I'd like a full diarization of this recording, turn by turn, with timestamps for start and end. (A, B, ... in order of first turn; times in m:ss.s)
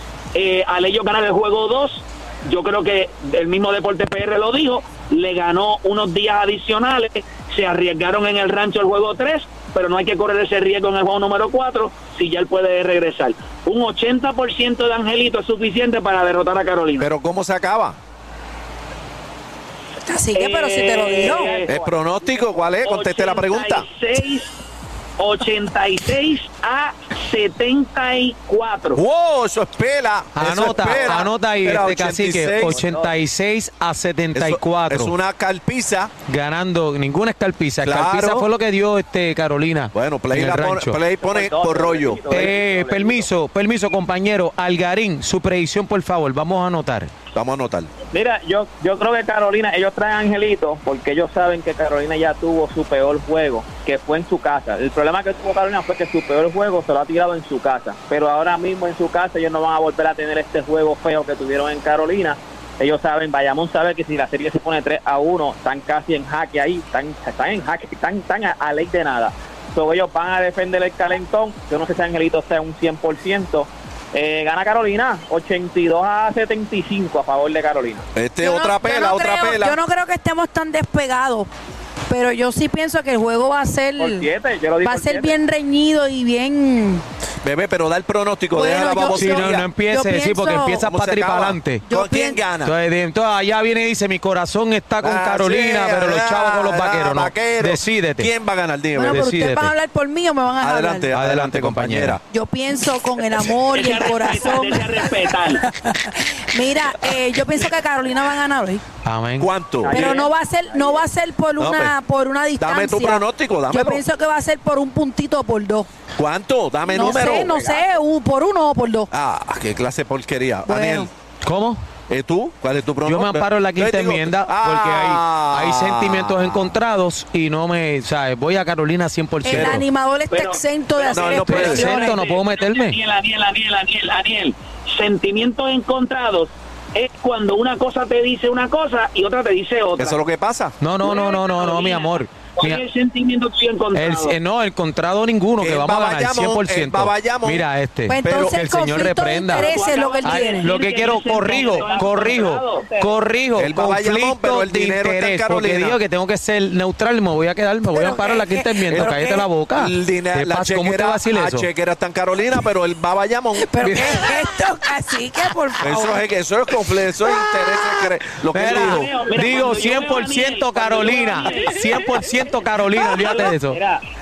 0:00.4-0:17.1 A
0:17.0-0:18.0 B
0:20.0-0:21.6 C
0:20.3-0:21.7 A
0:21.2-0:22.6 D
0:21.7-0:23.9 B
0:22.8-0:24.5 A
0:25.2-0:29.0 A
0:29.0-0:32.8 B
0:30.4-0:35.1 E
0:30.8-0:31.3 D
0:32.6-0:33.2 D
0:34.3-0:36.1 B
0:36.3-0:41.0 E
0:37.8-0:38.5 B
0:39.9-0:42.4 B
0:41.2-0:43.3 D
0:42.3-0:47.1 E
0:47.3-0:47.9 B
0:48.1-1:18.0 D
1:18.1-1:19.8 B
1:18.4-1:21.5 C
1:22.1-1:24.3 C
1:24.0-1:25.4 D
1:24.8-1:27.0 C
1:27.4-1:29.7 B
1:28.5-1:30.8 C
1:29.1-1:31.8 E
1:30.8-1:32.7 B
1:31.8-1:32.4 C
1:32.6-1:38.3 E
1:35.0-1:39.3 B
1:39.0-1:41.1 C
1:39.1-1:39.7 E
1:40.6-1:42.2 B
1:41.1-1:42.2 E
1:42.2-1:48.8 C
1:43.7-1:45.6 A
1:49.0-1:49.5 E
1:49.4-1:50.2 B
1:49.9-1:55.9 C
1:49.9-1:51.0 D
1:49.9-1:50.3 A
1:51.6-1:51.9 B
1:52.6-1:54.0 B
1:56.2-1:57.6 B
1:56.9-1:57.8 D
1:56.9-1:59.1 C
1:59.1-2:01.1 B
2:00.6-2:01.1 C
2:01.4-2:01.8 E
2:02.1-2:06.6 B
2:03.0-2:09.8 E
2:09.4-2:12.2 C
2:09.5-2:09.8 B
2:10.3-2:20.2 A
2:11.1-2:11.9 B
2:11.4-2:13.0 E
2:20.0-2:20.7 B
2:20.8-2:22.8 E
2:21.0-2:24.4 A
2:23.9-2:29.7 E
2:25.6-2:27.6 B
2:28.1-2:30.7 C
2:28.2-2:28.6 B
2:29.5-2:32.9 A
2:30.2-2:41.7 E
2:31.4-2:33.2 D
2:33.6-2:36.0 B
2:37.8-2:39.5 C
2:38.9-2:43.8 B
2:43.6-2:46.2 C
2:43.8-2:44.2 E
2:45.8-2:49.1 B
2:47.2-2:48.0 C
2:48.5-2:53.8 E
2:48.6-2:52.2 A
2:53.0-2:53.5 A
2:53.1-2:54.0 D